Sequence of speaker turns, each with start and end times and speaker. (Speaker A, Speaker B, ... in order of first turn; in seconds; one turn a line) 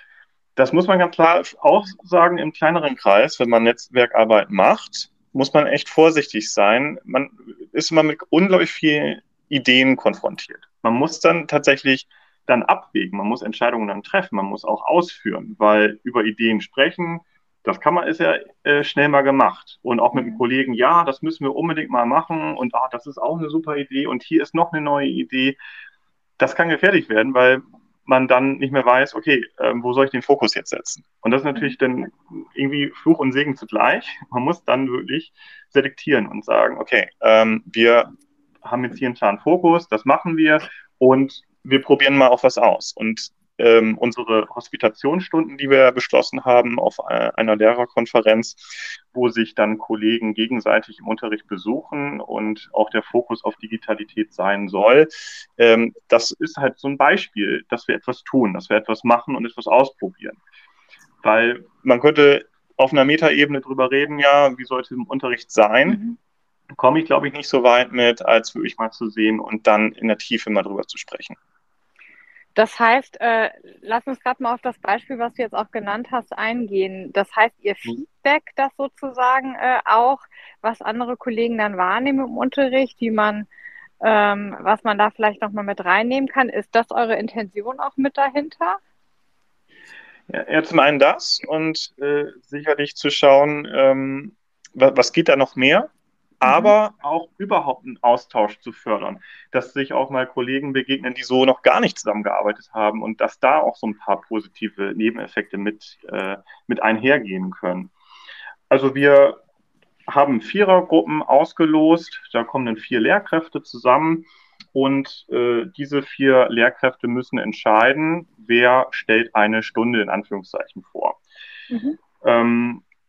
Speaker A: 0.6-25.6
Speaker B: 20.1-20.4
Speaker A: 26.4-60.4
Speaker A: 61.2-66.0
Speaker B: 65.8-66.2
Speaker A: 66.8-71.4
Speaker B: 72.5-83.5
Speaker B: 84.0-88.8
Speaker A: 90.3-95.9
Speaker A: 96.4-107.9
Speaker B: 96.5-96.7
Speaker A: 108.7-109.4
Speaker A: 110.1-121.2
Speaker B: 121.7-122.0
Speaker A: 122.2-122.8